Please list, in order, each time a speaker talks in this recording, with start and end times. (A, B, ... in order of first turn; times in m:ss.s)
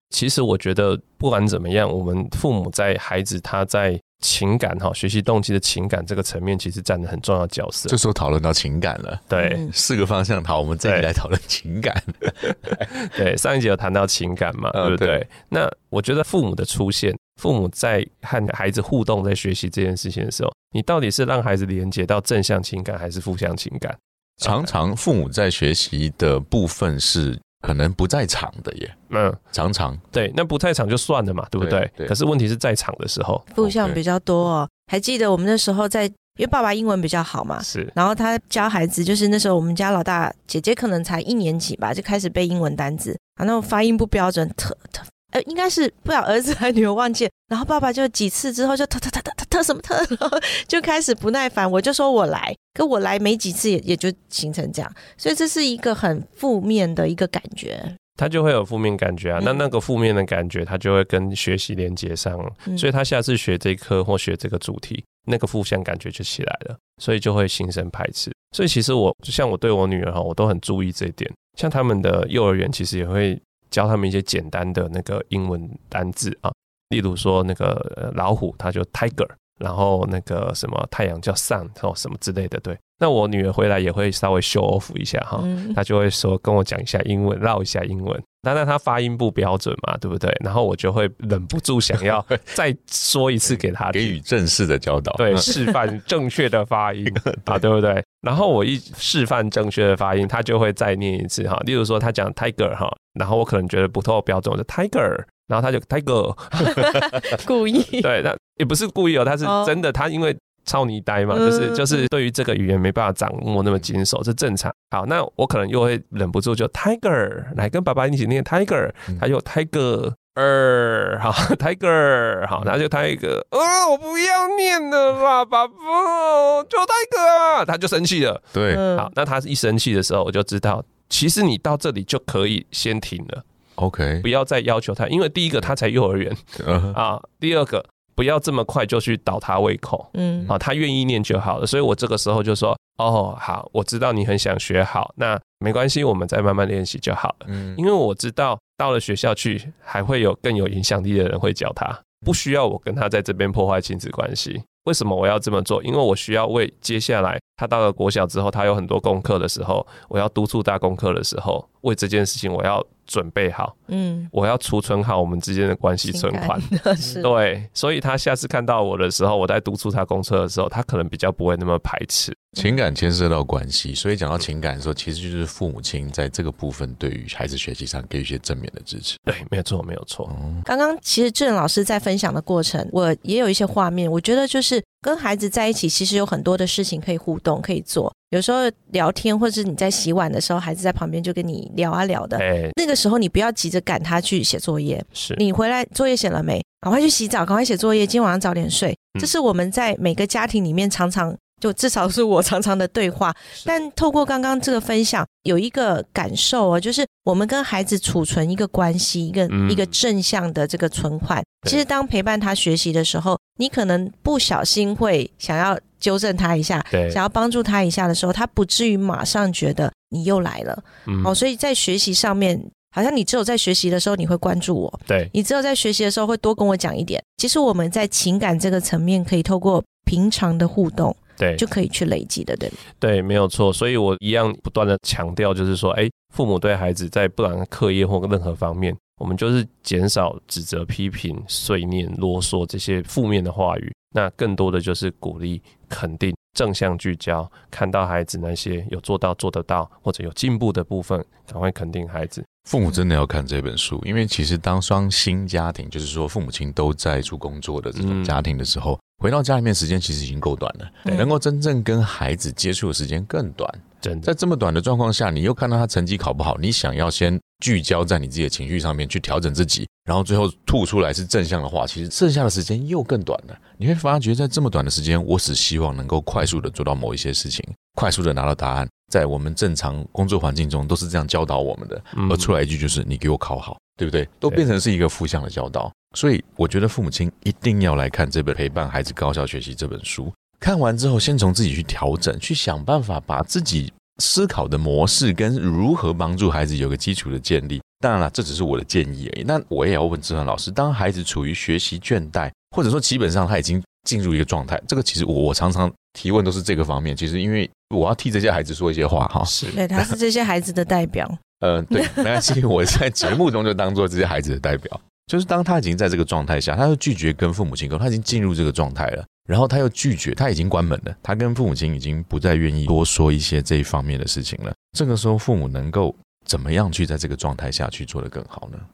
0:00.1-0:07.9 A
0:07.9-0:12.9 B
0:09.3-0:09.6 A
0:09.4-0:09.7 C
0:12.7-0:24.7 A
0:14.7-0:15.2 B
0:24.4-0:28.9 B
0:29.1-0:29.4 A
0:29.5-0:30.0 B
0:30.1-0:33.5 A
0:31.6-0:32.1 B
0:33.5-0:58.0 C
0:33.6-0:34.0 B
0:37.6-0:37.9 A
0:58.2-1:34.2 A
0:59.4-0:59.7 C
1:25.4-1:25.8 C
1:33.5-1:35.5 B
1:35.2-1:47.0 A
1:46.7-1:48.1 C
1:48.0-2:13.4 A
1:49.4-1:49.7 C
1:51.3-1:52.1 C
2:08.5-2:08.8 B
2:08.7-2:09.1 C
2:13.8-2:14.3 B
2:14.2-2:43.8 A
2:16.6-2:17.0 B
2:20.1-2:20.5 C
2:27.5-2:27.8 B
2:43.9-2:44.3 C
2:44.3-2:52.4 A
2:46.1-2:47.3 C
2:52.6-2:59.2 B
2:59.3-3:00.3 A
3:00.3-3:00.6 B
3:00.6-3:52.8 C
3:12.4-3:12.7 A
3:15.1-3:15.4 A
3:29.5-3:30.0 A
3:36.9-3:37.2 A
3:41.1-3:41.4 A
3:45.1-3:45.3 A
3:51.4-3:51.6 A
3:53.0-4:12.4 A
4:12.6-5:10.1 B
4:18.0-4:18.4 A
4:21.0-4:21.3 C
4:24.0-4:24.3 A
4:42.1-4:42.5 A
5:09.5-5:09.8 A
5:09.7-5:11.4 C
5:11.6-5:28.8 B
5:11.9-5:12.4 C